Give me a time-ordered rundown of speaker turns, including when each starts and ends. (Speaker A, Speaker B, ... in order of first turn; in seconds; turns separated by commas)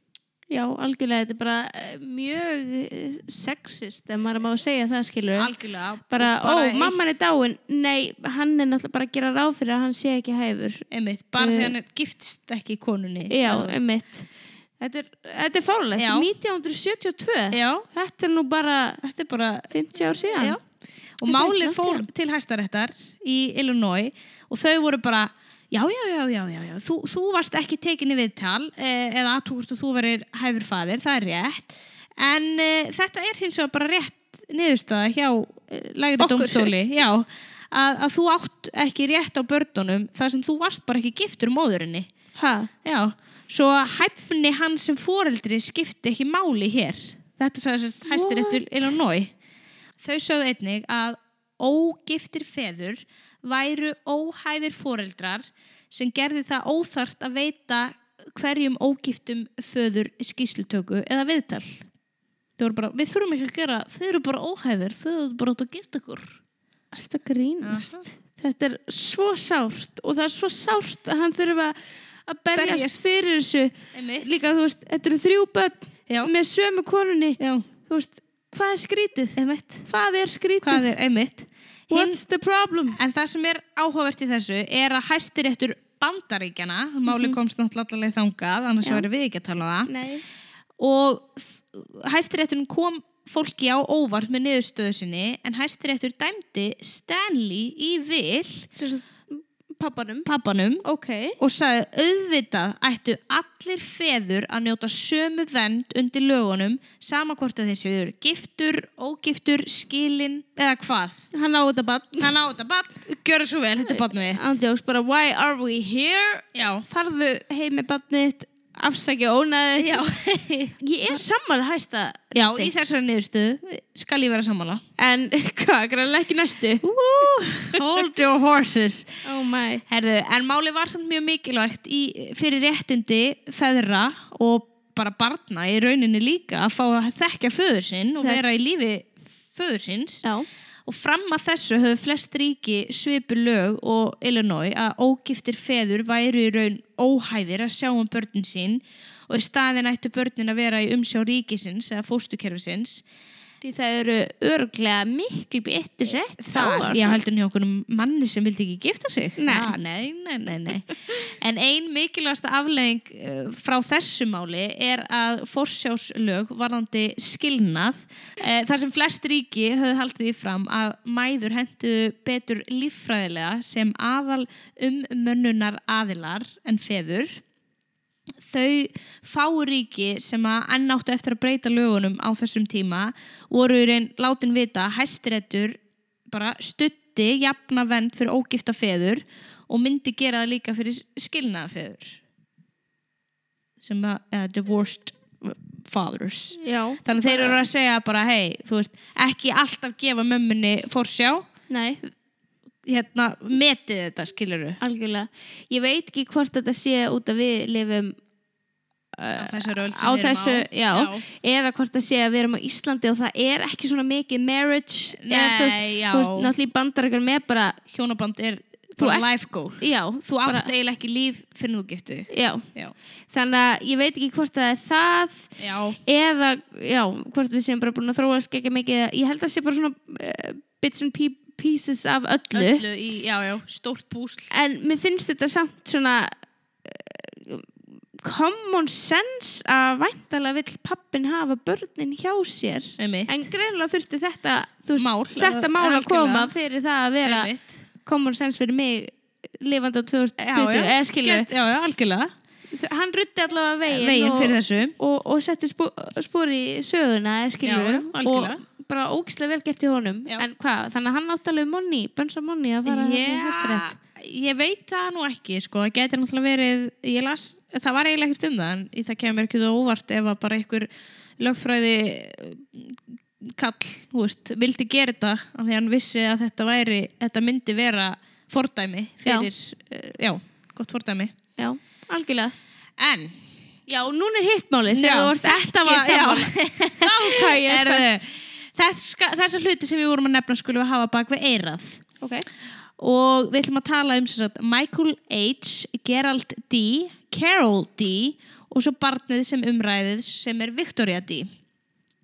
Speaker A: 0.5-5.5, Speaker B: 5.3-7.0, Speaker A: 6.1-10.8, Speaker B: 10.9-13.8, Speaker A: 11.4-11.7, Speaker A: 13.3-14.3, Speaker A: 14.8-19.0, Speaker B: 16.0-16.3, Speaker B: 17.5-17.9, Speaker B: 19.0-19.7, Speaker A: 19.7-20.6, Speaker B: 20.4-20.6, Speaker B: 21.2-42.1, Speaker A: 21.2-22.1, Speaker A: 36.2-36.7, Speaker A: 42.4-42.7, Speaker B: 42.8-49.3, Speaker A: 48.1-48.9, Speaker B: 50.0-61.9, Speaker B: 62.6-66.4, Speaker A: 66.9-80.9, Speaker B: 67.6-68.1, Speaker B: 72.5-73.0, Speaker B: 73.9-74.4, Speaker B: 77.4-77.7, Speaker B: 79.4-79.8, Speaker B: 80.6-82.2, Speaker A: 81.9-83.0, Speaker B: 83.0-89.9, Speaker A: 87.1-87.4, Speaker A: 89.9-90.2, Speaker B: 90.8-98.7, Speaker A: 98.8-100.3, Speaker B: 100.2-100.8, Speaker A: 100.8-101.4, Speaker B: 101.4-111.2, Speaker A: 111.3-112.3, Speaker B: 112.2-114.5, Speaker A: 113.9-120.0, Speaker B: 116.5-116.9, Speaker B: 119.8-120.8, Speaker A: 120.8-122.7, Speaker B: 122.3-124.8, Speaker A: 125.0-127.8, Speaker B: 126.8-129.2, Speaker A: 129.2-129.8, Speaker B: 129.9-140.3, Speaker B: 140.9-153.0, Speaker A: 153.6-157.2, Speaker B: 156.4-177.4, Speaker A: 159.4-159.7, Speaker B: 178.4-192.2, Speaker B: 193.8-201.5, Speaker A: 196.6-197.6, Speaker A: 201.7-202.1, Speaker B: 202.9-204.8, Speaker A: 204.8-208.2, Speaker A: 209.1-217.8, Speaker B: 209.3-211.3, Speaker B: 215.2-216.5, Speaker B: 217.9-222.9, Speaker A: 219.0-219.3, Speaker A: 219.8-220.7, Speaker A: 222.3-222.7, Speaker A: 223.3-225.5, Speaker B: 225.6-226.0, Speaker A: 226.1-232.8, Speaker B: 232.5-234.5, Speaker A: 234.5-236.3, Speaker A: 236.8-247.5, Speaker B: 243.0-243.5, Speaker B: 245.0-246.5, Speaker B: 247.2-247.8, Speaker A: 248.0-251.5, Speaker B: 250.4-252.3, Speaker A: 252.7-264.0, Speaker B: 253.9-254.9, Speaker B: 257.6-258.6, Speaker B: 262.9-270.9, Speaker B: 271.4-281.4, Speaker A: 281.6-282.6, Speaker B: 283.0-283.4, Speaker A: 283.9-288.2, Speaker B: 284.9-292.0, Speaker A: 292.2-292.5, Speaker B: 293.0-301.5